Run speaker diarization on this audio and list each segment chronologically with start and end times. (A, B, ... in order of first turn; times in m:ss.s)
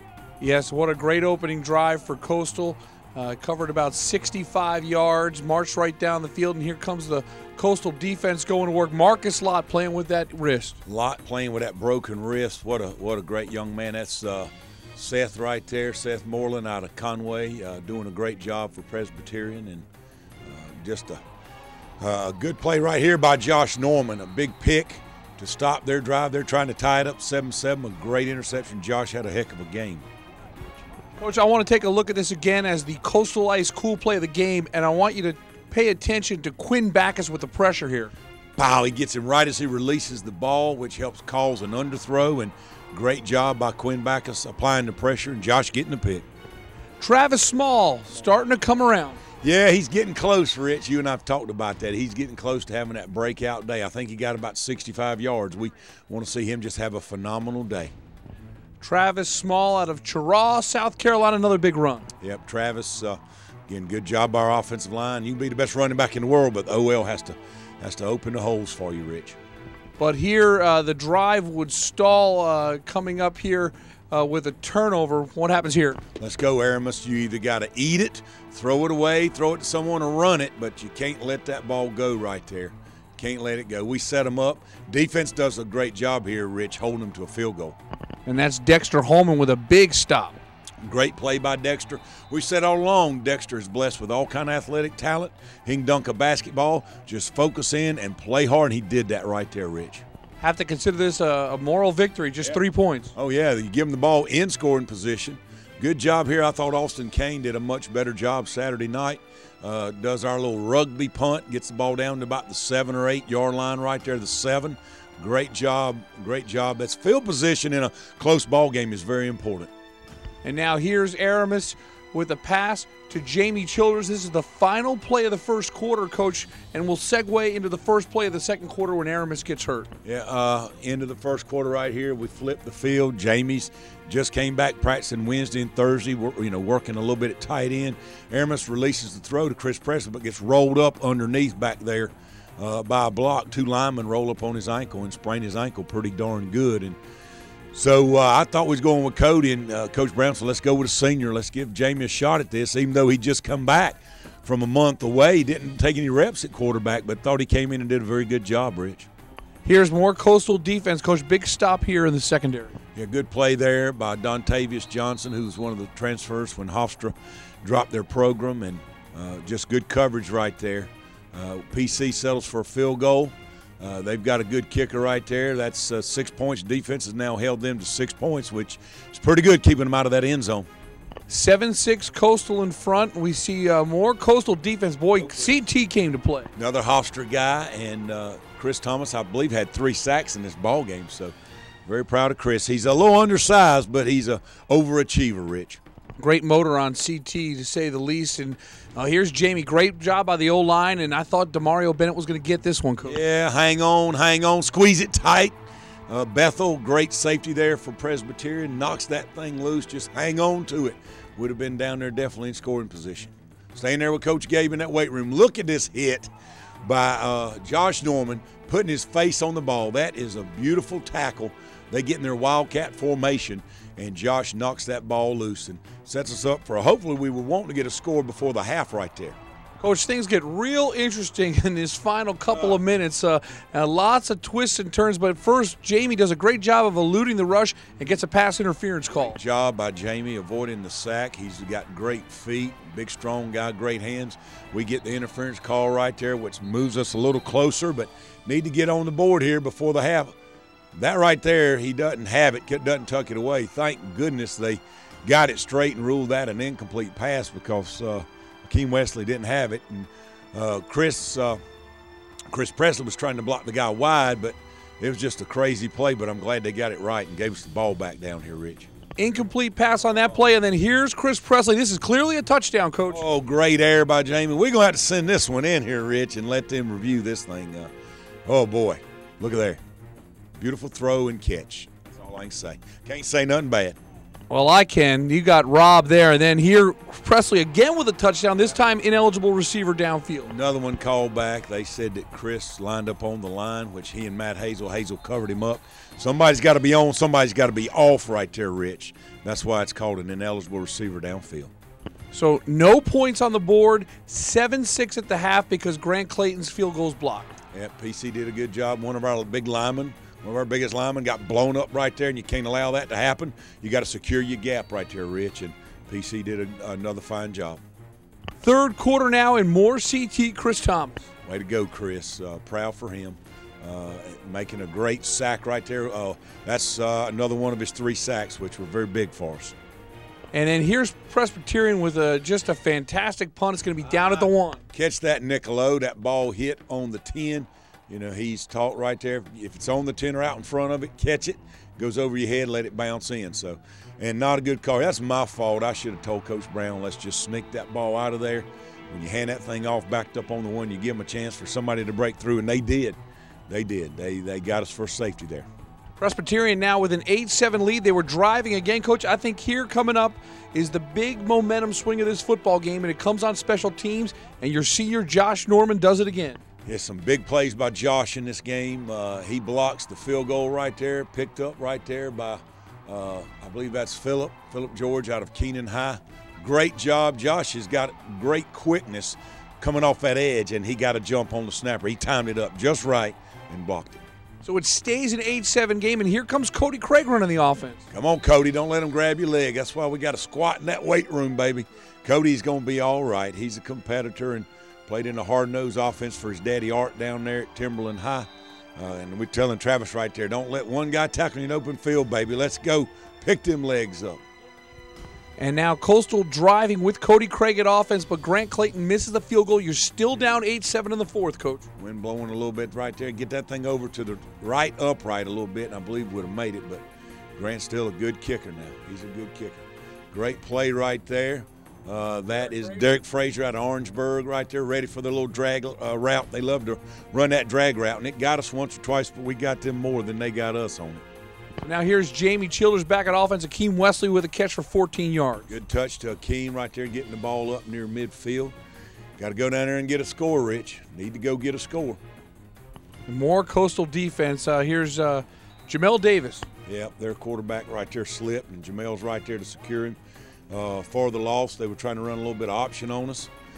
0:00.4-0:10.8 A
0:10.8-0:19.9 B
0:20.4-0:21.2 B
0:22.0-0:30.0 B
0:31.2-0:38.1 A
0:38.6-0:46.2 B
0:47.0-0:49.2 A
0:49.4-0:57.9 B
0:58.8-1:02.1 A
1:02.2-1:09.4 B
1:10.0-1:16.0 A
1:16.2-1:27.8 B
1:28.2-1:30.4 A
1:30.8-1:40.0 B
1:40.4-1:43.1 A
1:43.2-1:59.7 B
2:00.4-2:09.9 A
2:10.0-2:27.0 B
2:27.7-2:39.1 B
2:39.6-2:42.8 A
2:42.9-3:00.7 B
3:01.3-3:06.5 A
3:05.2-3:05.5 B
3:06.6-3:15.8 B
3:16.2-3:23.2 A
3:23.0-3:25.6 B
3:26.1-3:36.3 B
3:36.8-3:49.4 B
3:49.8-3:59.4 A
3:52.5-3:52.8 B
3:59.2-4:10.4 B
4:10.9-4:21.6 B
4:22.5-4:28.9 B
4:29.2-4:33.2 A
4:33.1-4:37.9 B
4:38.4-4:39.8 B
4:40.6-4:44.0 B
4:44.5-4:50.5 A
4:50.5-5:01.7 B
5:02.3-5:07.6 A
5:07.7-5:17.8 B
5:18.6-5:21.3 A
5:21.4-5:29.8 B
5:30.5-5:34.8 A
5:34.1-5:55.7 B
5:56.2-6:06.6 A
6:06.8-6:24.2 B
6:24.6-6:28.0 A
6:28.1-6:44.4 B
6:45.6-6:51.8 A
6:52.0-6:57.0 B
6:57.6-7:11.2 B
7:11.8-7:15.7 A
7:15.7-7:18.8 B
7:19.4-7:22.2 B
7:23.3-7:26.7 A
7:26.8-7:30.2 B
7:30.7-7:33.5 B